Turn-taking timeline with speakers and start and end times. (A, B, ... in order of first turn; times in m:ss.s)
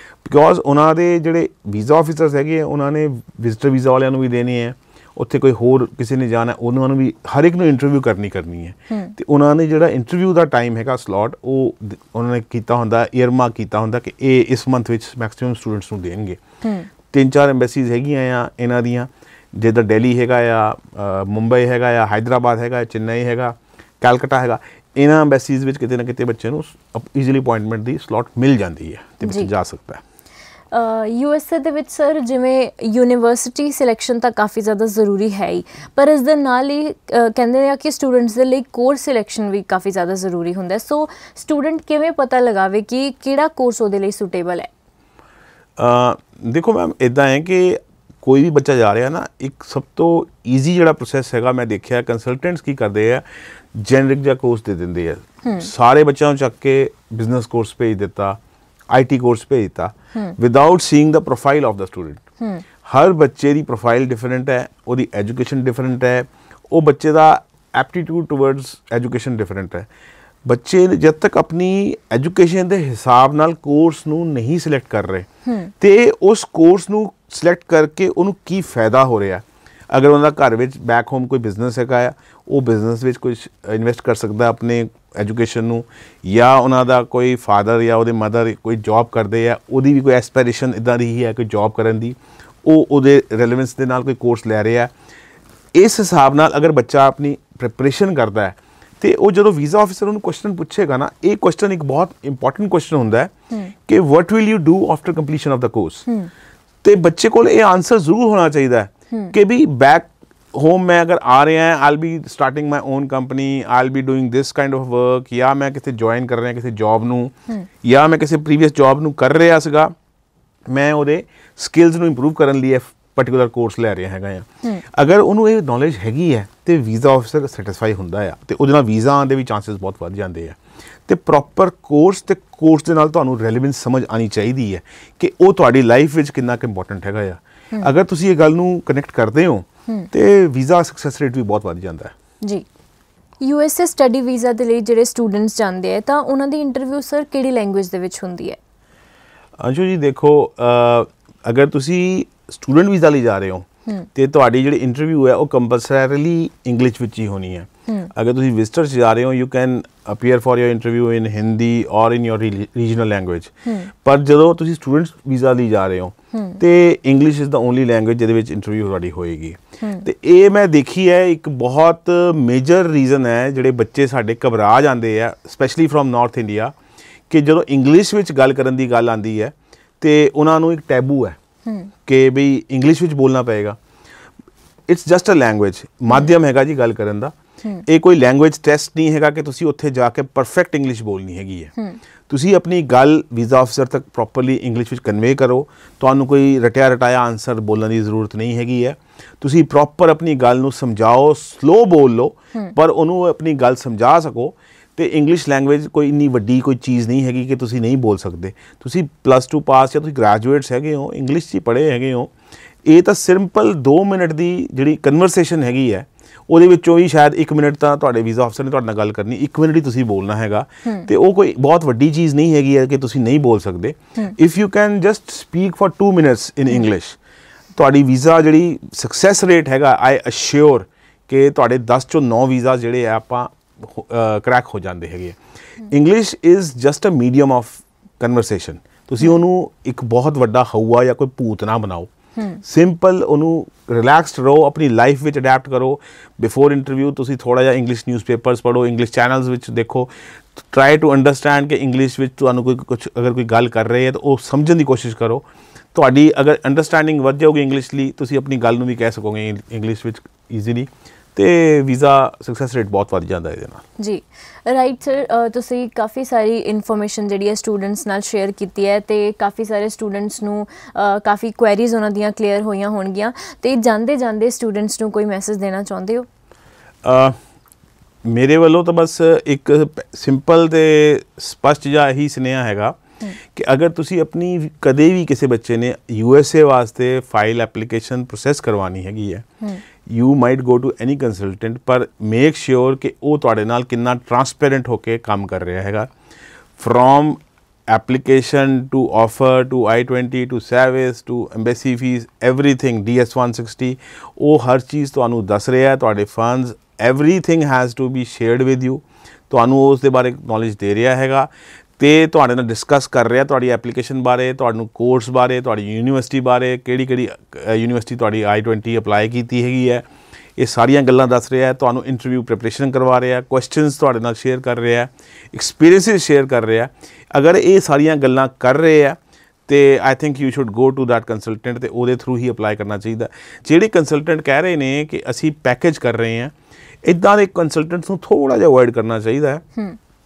0:00.2-0:16.4 A
0:08.9-0:09.2 B
0:16.6-0:16.9 B
0:17.1-0:30.0 A
0:29.2-0:29.5 B
0:30.7-0:44.7 B
0:45.8-0:58.4 A
0:55.4-0:55.7 B
0:58.9-1:02.2 A
1:02.8-1:09.9 A
1:10.4-1:15.3 A
1:15.5-1:15.7 B
1:15.8-1:34.9 A
1:35.8-1:43.3 A
1:43.8-1:46.1 A
1:46.8-1:59.9 A
2:00.7-2:22.1 A
2:23.4-2:28.6 B
2:29.6-2:56.8 A
2:43.7-2:43.9 B
2:46.3-2:46.6 B
2:49.8-2:50.1 B
2:57.3-3:01.4 A
3:01.7-3:01.9 B
3:02.1-3:03.8 A
3:04.9-3:07.3 A
3:07.8-3:11.7 A
3:12.3-3:32.3 A
3:32.8-3:47.2 A
3:47.8-4:02.1 A
4:02.4-4:02.6 B
4:02.6-4:23.8 A
4:24.0-4:36.3 B
4:37.0-4:37.4 A
4:38.2-4:49.5 A
4:50.0-4:56.1 A
4:56.8-5:20.0 A
5:20.6-5:39.6 A